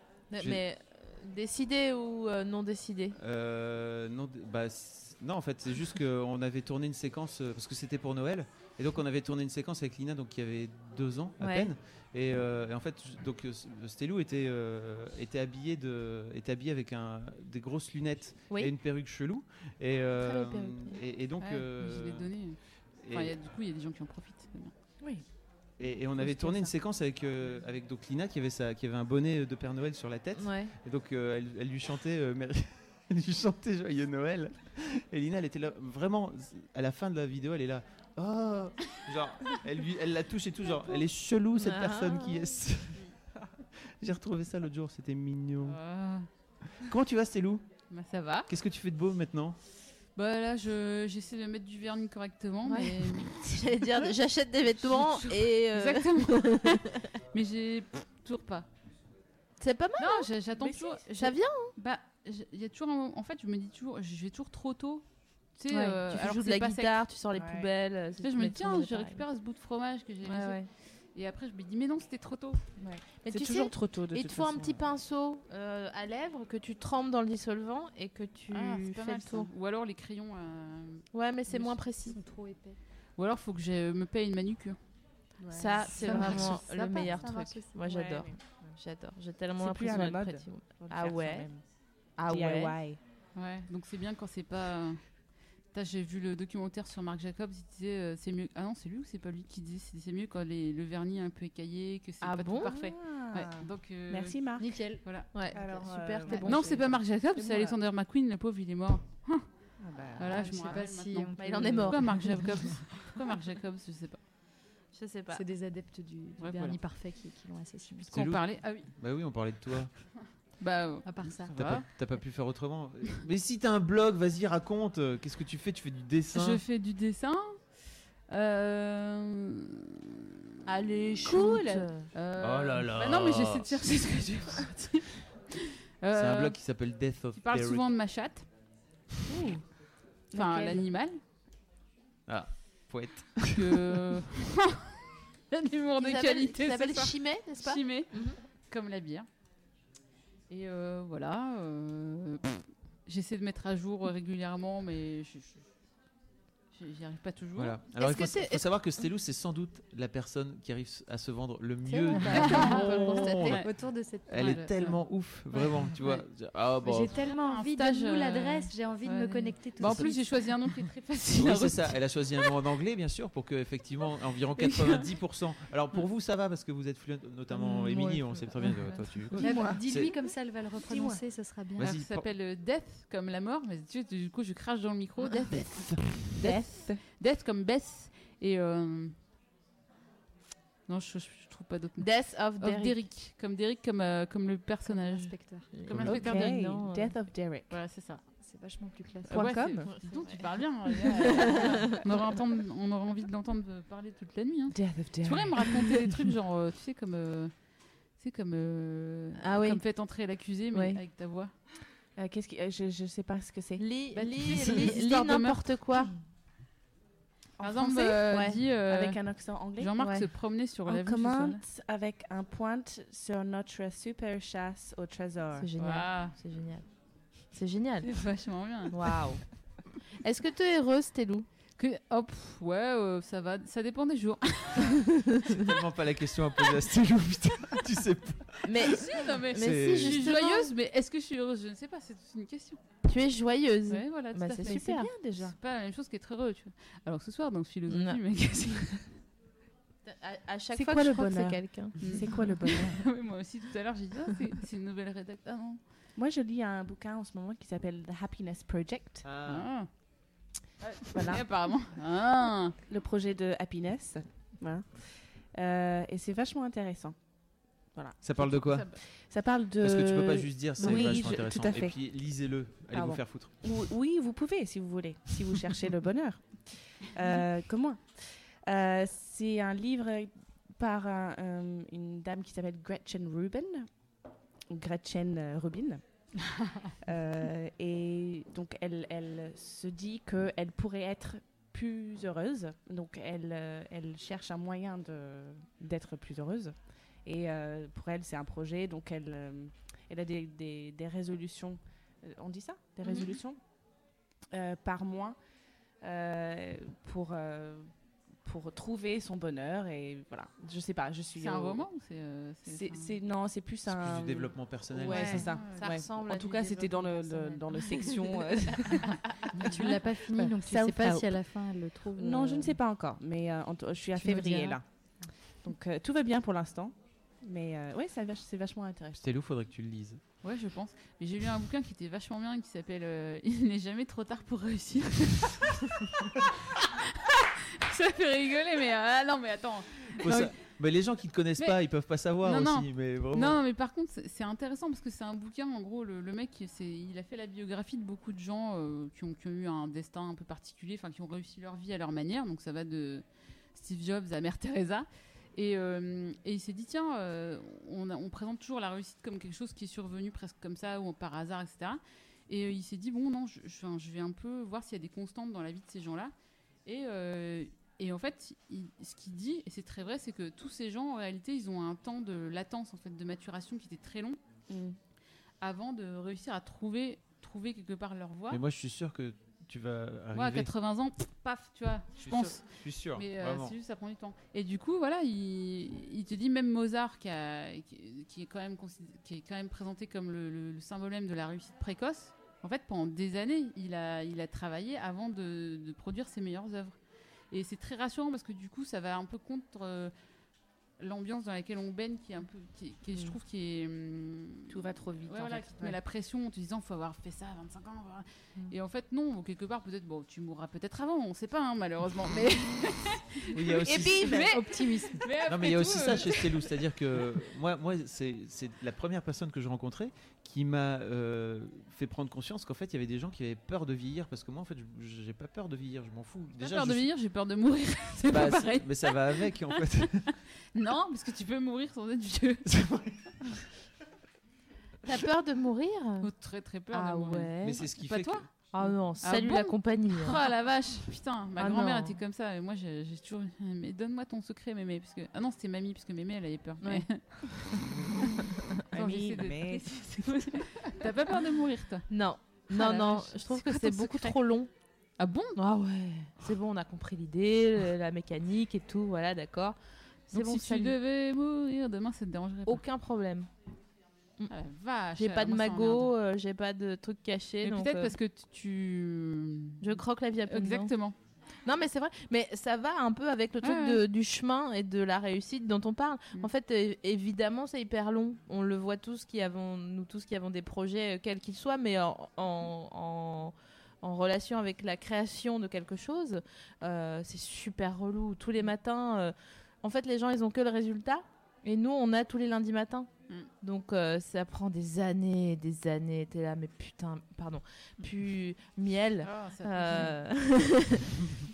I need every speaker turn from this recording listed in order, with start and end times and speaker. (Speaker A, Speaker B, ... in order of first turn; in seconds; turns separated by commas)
Speaker A: 0.3-3.1, Speaker B: 3.2-23.3, Speaker A: 11.4-11.7, Speaker A: 20.1-21.0, Speaker C: 21.4-22.6, Speaker C: 23.1-24.7, Speaker B: 25.8-43.1, Speaker D: 26.2-26.7, Speaker A: 30.4-30.7, Speaker A: 41.5-42.5, Speaker B: 43.8-45.8, Speaker C: 45.6-46.3, Speaker B: 46.7-47.6, Speaker C: 47.9-48.5, Speaker B: 48.5-49.6, Speaker C: 50.1-53.4, Speaker A: 52.6-56.8, Speaker C: 54.8-58.7, Speaker A: 59.6-60.3, Speaker C: 60.0-67.0, Speaker D: 60.6-61.0, Speaker A: 61.1-61.7, Speaker A: 65.7-69.2, Speaker D: 67.3-67.7, Speaker C: 68.2-72.6, Speaker A: 70.2-70.7, Speaker D: 72.8-74.9, Speaker A: 73.2-79.5, Speaker C: 78.5-81.8, Speaker A: 81.1-82.2, Speaker E: 82.0-82.8, Speaker C: 83.2-84.8, Speaker D: 85.4-87.2, Speaker A: 85.5-91.5, Speaker E: 86.0-88.4, Speaker C: 86.0-87.0, Speaker D: 87.8-88.8, Speaker D: 89.6-91.6, Speaker A: 92.2-92.8, Speaker D: 92.3-93.0, Speaker C: 93.3-105.6, Speaker A: 102.2-102.8, Speaker D: 102.7-104.8, Speaker E: 104.6-105.7, Speaker A: 105.3-107.0, Speaker D: 105.5-107.7, Speaker E: 106.3-106.6, Speaker C: 106.3-109.5, Speaker D: 109.8-110.7, Speaker C: 110.2-114.2, Speaker E: 110.2-113.0, Speaker A: 111.4-112.8, Speaker A: 114.9-115.4, Speaker E: 115.3-118.2, Speaker C: 116.4-116.8, Speaker C: 118.1-118.9, Speaker B: 118.1-120.0, Speaker C: 120.6-121.9, Speaker E: 121.0-121.6, Speaker B: 121.2-126.6, Speaker C: 126.3-129.8, Speaker A: 130.7-132.1, Speaker D: 131.3-131.8, Speaker C: 132.1-135.2, Speaker B: 132.3-133.9, Speaker C: 136.0-136.8, Speaker B: 136.1-137.9, Speaker C: 137.3-138.5, Speaker D: 139.3-140.9, Speaker C: 140.3-141.2, Speaker B: 142.3-144.0, Speaker C: 143.5-144.7, Speaker C: 145.5-149.3, Speaker A: 146.0-148.4, Speaker C: 150.5-155.7, Speaker C: 156.7-157.8, Speaker B: 157.6-167.2, Speaker A: 158.0-158.9, Speaker E: 161.8-165.0, Speaker A: 162.2-163.3, Speaker C: 162.2-165.2, Speaker E: 165.5-165.9, Speaker C: 166.0-166.2, Speaker E: 166.8-170.5, Speaker C: 167.1-172.0, Speaker B: 169.8-170.1, Speaker B: 171.3-180.2, Speaker E: 177.5-181.9, Speaker C: 178.7-179.3, Speaker D: 179.4-180.3, Speaker D: 180.8-181.2, Speaker B: 181.7-182.3, Speaker C: 181.8-189.1, Speaker B: 185.5-186.4, Speaker D: 186.4-187.0, Speaker C: 190.9-196.5, Speaker A: 192.0-193.0, Speaker E: 194.9-195.8, Speaker A: 195.7-197.2, Speaker B: 195.9-196.2, Speaker D: 196.1-197.8, Speaker C: 197.7-198.2, Speaker E: 198.3-199.8, Speaker C: 199.3-207.5, Speaker D: 199.3-199.9, Speaker A: 199.9-200.4, Speaker D: 204.7-206.0, Speaker C: 208.1-211.5, Speaker A: 209.4-209.8, Speaker A: 210.7-211.0, Speaker D: 212.2-213.8, Speaker A: 213.8-216.1, Speaker C: 214.1-215.8, Speaker D: 217.6-225.7, Speaker C: 217.6-221.6, Speaker A: 218.3-218.6, Speaker A: 220.0-220.3, Speaker A: 225.6-228.3, Speaker C: 225.8-226.3, Speaker C: 228.0-228.9, Speaker A: 228.9-231.5, Speaker C: 231.8-235.0, Speaker B: 235.5-240.2, Speaker A: 238.6-240.7, Speaker C: 238.9-242.8, Speaker A: 243.0-245.1, Speaker C: 243.9-249.0, Speaker D: 244.6-245.6, Speaker A: 247.9-248.2, Speaker A: 250.0-252.4, Speaker D: 250.7-253.0, Speaker C: 252.0-255.8, Speaker D: 256.1-259.3, Speaker B: 259.2-259.7, Speaker C: 259.4-259.9, Speaker C: 260.8-262.8, Speaker D: 261.1-261.8, Speaker D: 262.9-267.2, Speaker D: 267.9-272.0, Speaker B: 268.2-269.0, Speaker C: 268.6-269.0, Speaker B: 269.8-273.5, Speaker D: 272.9-284.0, Speaker D: 284.7-286.2, Speaker D: 287.1-303.6, Speaker A: 303.0-303.3, Speaker D: 304.5-305.4, Speaker D: 306.0-307.9, Speaker D: 308.4-311.9, Speaker C: 311.4-313.1, Speaker D: 312.6-319.1, Speaker B: 313.8-315.5, Speaker A: 315.0-317.9, Speaker C: 315.5-315.9, Speaker C: 319.6-319.9, Speaker E: 319.6-322.8, Speaker D: 320.4-321.4, Speaker D: 322.1-324.8, Speaker E: 324.1-325.3, Speaker D: 325.4-329.2, Speaker B: 329.2-330.2, Speaker C: 330.4-335.9, Speaker C: 337.9-340.6, Speaker B: 340.1-343.6, Speaker C: 342.4-366.3, Speaker C: 366.8-374.4, Speaker D: 374.7-375.0, Speaker C: 375.6-378.6, Speaker B: 378.5-380.7, Speaker C: 380.3-397.0, Speaker B: 382.2-383.7, Speaker C: 397.5-400.1, Speaker C: 401.0-416.6, Speaker D: 404.7-406.0, Speaker B: 413.5-414.5, Speaker D: 413.9-414.6, Speaker E: 414.5-415.2, Speaker B: 415.4-427.1, Speaker C: 426.6-430.0, Speaker B: 428.3-430.3, Speaker C: 430.7-432.6, Speaker B: 432.6-433.4, Speaker A: 435.0-436.3, Speaker C: 436.2-447.3, Speaker A: 436.9-437.9, Speaker B: 437.6-438.5, Speaker A: 438.7-440.4, Speaker A: 441.6-442.2, Speaker A: 446.8-447.7, Speaker D: 448.9-450.5, Speaker C: 448.9-452.1, Speaker A: 452.1-454.7, Speaker C: 452.7-454.4, Speaker C: 455.2-455.6, Speaker A: 455.5-459.8, Speaker A: 460.3-460.9, Speaker C: 460.3-462.8, Speaker A: 462.6-463.5, Speaker C: 464.5-466.1, Speaker A: 465.1-468.1, Speaker C: 467.6-471.1, Speaker A: 469.8-470.9, Speaker A: 471.6-493.1, Speaker C: 473.6-474.0, Speaker A: 493.6-501.2, Speaker C: 499.2-500.2